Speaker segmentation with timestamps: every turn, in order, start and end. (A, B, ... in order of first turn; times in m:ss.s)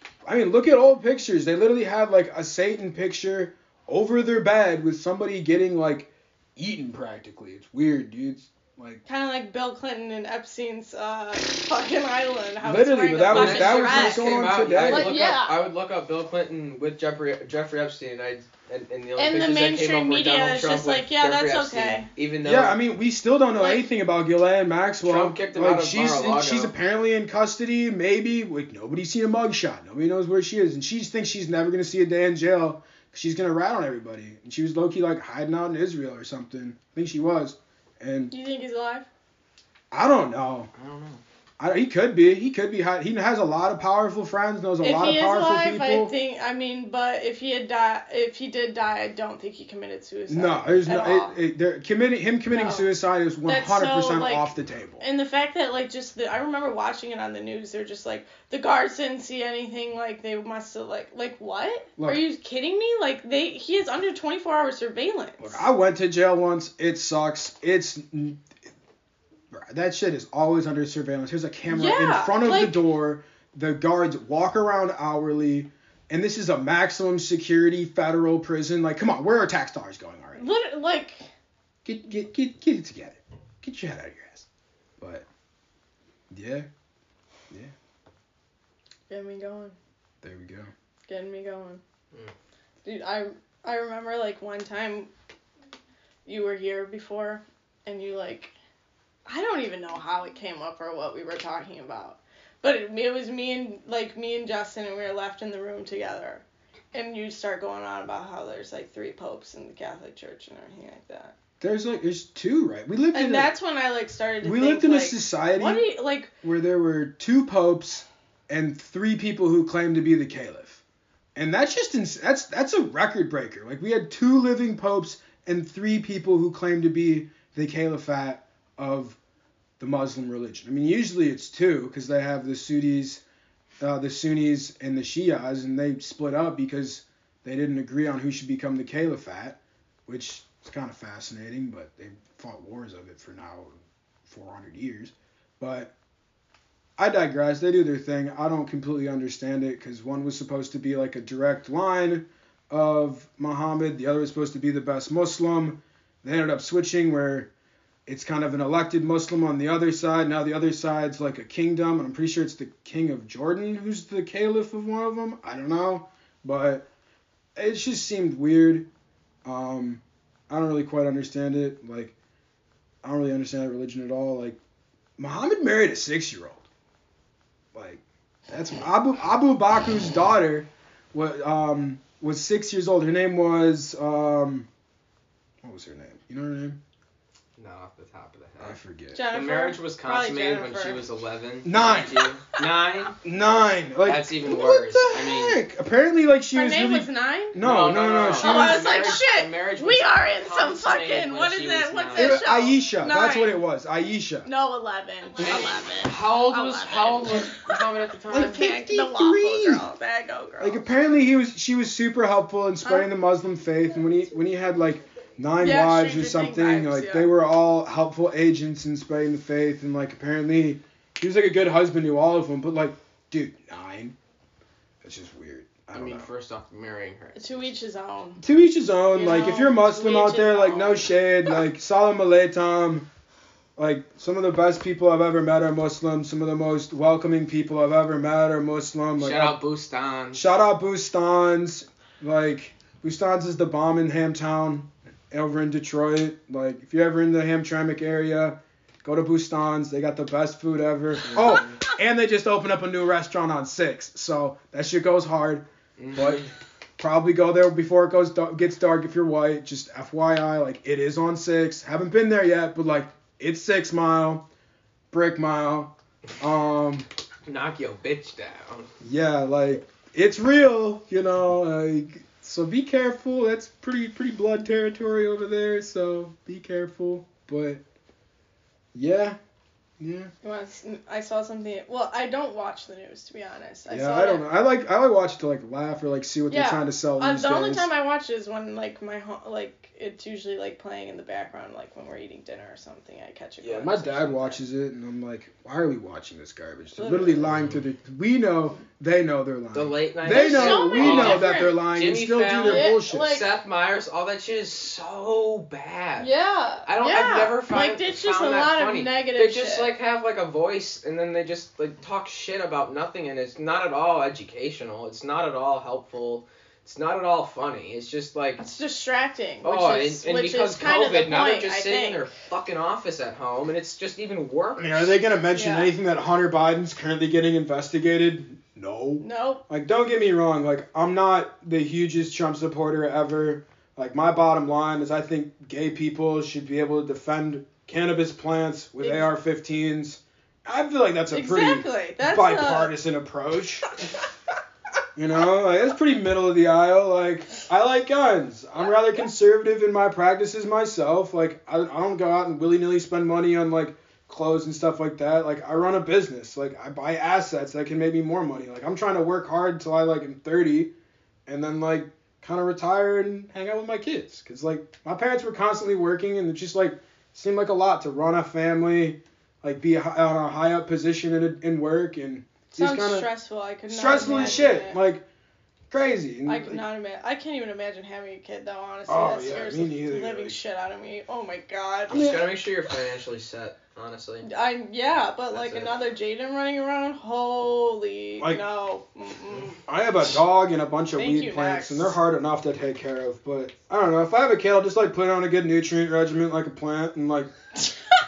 0:00.2-0:09.0 A
0:09.0-0:15.6 B
0:12.6-0:15.2 A
0:13.2-0:22.8 C
0:19.2-0:22.1 B
0:22.4-0:38.3 A
0:23.6-0:23.8 B
0:25.0-0:26.7 C
0:38.3-0:39.1 B
0:39.9-0:40.7 A
0:40.7-0:41.2 C
0:41.6-0:46.1 A
0:44.8-0:51.3 B
0:50.3-0:55.0 A
0:52.5-0:52.8 B
0:53.4-1:05.6 B
1:02.0-1:02.2 A
1:05.4-1:08.4 A
1:09.5-1:20.5 A
1:11.7-1:12.8 B
1:20.4-1:21.3 B
1:21.8-1:24.4 A
1:25.0-1:25.2 A
1:26.3-1:26.7 A
1:29.1-1:29.8 B
1:30.2-1:30.7 A
1:31.1-1:31.8 B
1:32.8-1:35.1 B
1:36.2-1:38.5 B
1:39.2-1:51.3 B
1:51.6-1:53.5 A
1:53.1-1:56.3 B
1:54.4-1:55.8 A
1:56.4-2:00.8 A
2:01.3-2:09.2 A
2:09.8-2:13.2 A
2:13.8-2:25.9 A
2:27.0-2:37.5 A
2:38.1-2:46.8 A
2:47.6-2:48.9 A
2:49.4-2:52.1 A
2:53.0-2:54.6 A
2:55.2-2:56.6 A
2:57.7-3:04.7 A
3:05.6-3:06.8 A
3:07.6-3:08.8 C
3:08.6-3:09.2 A
3:09.1-3:11.0 B
3:09.3-3:13.2 C
3:11.6-3:12.3 A
3:13.2-3:19.0 A
3:14.0-3:15.6 C
3:16.5-3:17.6 B
3:17.6-3:22.4 C
3:18.2-3:23.6 B
3:22.1-3:24.5 A
3:24.4-3:31.0 B
3:25.4-3:28.6 C
3:28.3-3:29.8 A
3:30.6-3:44.1 A
3:32.8-3:33.1 B
3:35.6-3:37.3 B
3:45.0-3:46.3 A
3:45.9-3:47.7 C
3:47.3-3:48.4 B
3:48.4-3:53.1 A
3:49.1-3:51.2 B
3:53.8-3:59.6 A
3:59.2-4:00.4 C
4:00.3-4:24.4 A
4:11.2-4:11.8 C
4:16.0-4:16.5 C
4:25.1-4:27.1 A
4:27.4-4:28.9 C
4:29.0-4:37.8 A
4:38.9-4:39.4 A
4:40.0-4:40.3 A
4:40.4-4:44.4 B
4:43.9-4:47.9 A
4:46.5-4:54.6 B
4:53.6-5:03.4 A
4:57.0-4:57.5 B
4:57.5-4:57.8 C
4:59.7-5:06.3 C
5:00.2-5:01.8 B
5:02.6-5:03.5 B
5:06.2-5:09.9 B
5:06.8-5:18.6 C
5:18.6-5:22.3 B
5:19.6-5:25.1 C
5:24.8-5:43.9 A
5:25.5-5:25.9 B
5:29.2-5:29.6 B
5:39.0-5:39.3 B
5:41.3-5:42.9 B
5:45.2-6:00.9 A
6:01.5-6:13.3 A
6:12.7-6:15.0 B
6:13.9-6:15.2 A
6:14.2-6:14.8 C
6:15.9-6:16.8 A
6:16.4-6:22.4 B
6:19.1-6:20.6 A
6:22.1-6:22.5 A
6:22.1-6:24.5 C
6:24.4-6:29.8 B
6:25.5-6:25.9 C
6:29.8-6:37.5 A
6:31.2-6:32.2 B